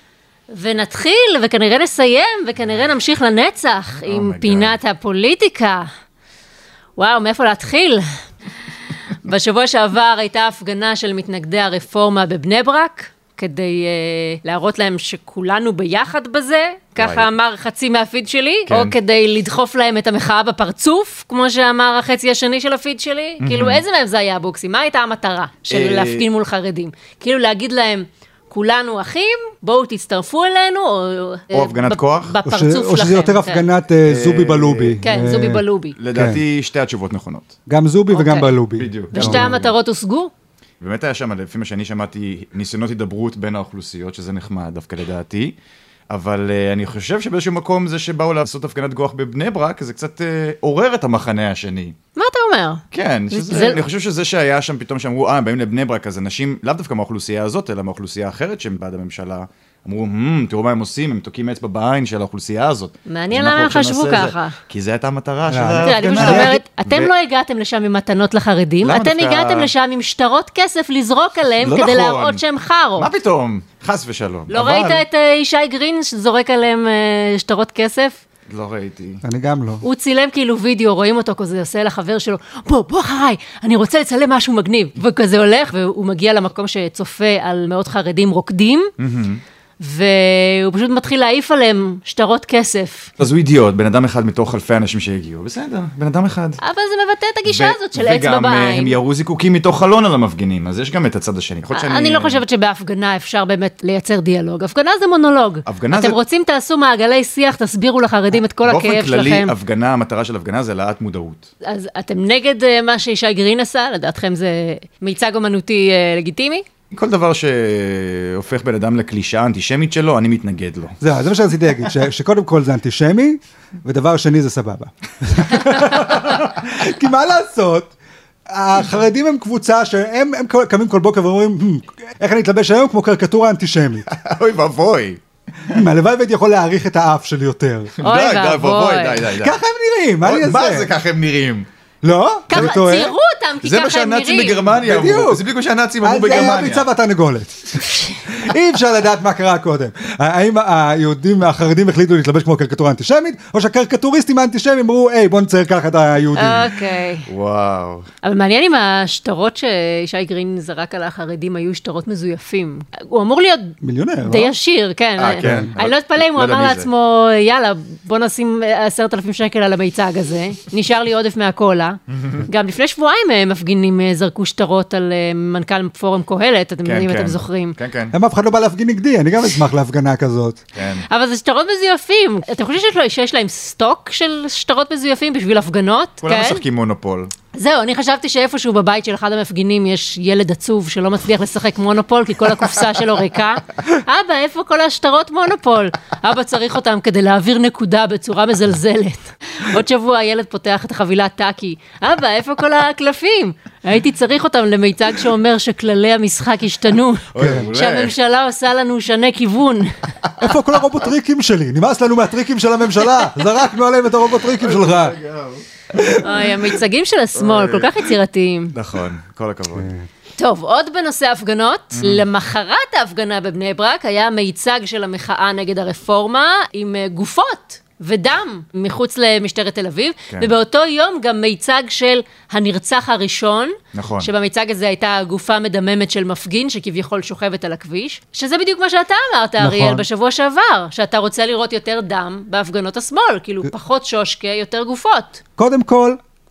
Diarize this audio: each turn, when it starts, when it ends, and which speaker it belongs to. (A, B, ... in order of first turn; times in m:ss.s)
0:00.5-0:05.9 A
0:04.0-0:04.8 B
0:07.0-0:08.1 A
0:09.2-0:33.7 A
0:17.0-0:17.3 B
0:18.7-0:19.0 B
0:23.4-0:23.8 B
0:25.7-0:26.3 B
0:31.5-0:32.4 B
0:32.4-0:36.4 C
0:34.1-0:35.0 B
0:35.0-0:36.0 A
0:36.0-0:37.5 B
0:37.7-0:39.6 C
0:38.1-0:38.6 A
0:38.8-0:39.7 B
0:39.1-0:40.3 A
0:40.8-0:45.6 B
0:46.1-0:52.0 B
0:52.2-0:53.8 A
0:52.9-1:07.1 B
1:03.1-1:04.6 A
1:05.5-1:06.6 C
1:05.8-1:13.1 A
1:08.8-1:09.7 B
1:11.6-1:12.4 B
1:13.0-1:15.0 B
1:14.5-1:18.2 A
1:18.5-1:19.2 B
1:19.2-1:19.8 C
1:19.8-1:28.9 A
1:29.0-1:29.4 B
1:29.8-1:33.1 A
1:33.2-1:36.6 B
1:36.6-1:39.0 A
1:37.4-1:42.4 B
1:41.7-1:49.5 A
1:45.7-1:46.2 B
1:48.6-1:51.5 B
1:51.6-1:56.6 A
1:56.9-2:01.0 B
2:01.0-2:07.9 C
2:08.5-2:14.1 C
2:14.1-2:15.2 B
2:15.7-2:17.9 C
2:18.0-2:19.6 B
2:18.0-2:19.2 A
2:19.4-2:20.9 C
2:20.2-2:21.7 B
2:22.0-2:23.1 C
2:22.5-2:24.7 A
2:23.6-2:26.9 B
2:24.8-2:25.4 C
2:26.0-2:36.8 C
2:36.4-2:37.3 A
2:37.3-2:38.1 B
2:38.2-2:57.8 A
2:43.8-2:44.5 C
2:45.2-2:46.9 B
2:45.4-2:45.7 C
2:52.1-2:52.5 B
2:56.8-2:58.2 B
2:58.1-3:00.6 C
3:00.8-3:01.1 B
3:01.1-3:06.6 A
3:06.2-3:07.3 B
3:07.5-3:30.0 A
3:27.3-3:28.2 B
3:27.4-3:27.7 C
3:30.4-3:35.2 C
3:34.4-3:35.6 B
3:36.0-3:36.4 C
3:36.2-3:38.7 A
3:37.4-3:38.1 B
3:38.7-3:39.9 B
3:39.8-3:40.1 C
3:40.4-4:05.4 A
3:42.0-3:42.2 B
3:53.9-3:54.3 B
3:59.6-4:00.1 C
4:05.6-4:06.2 C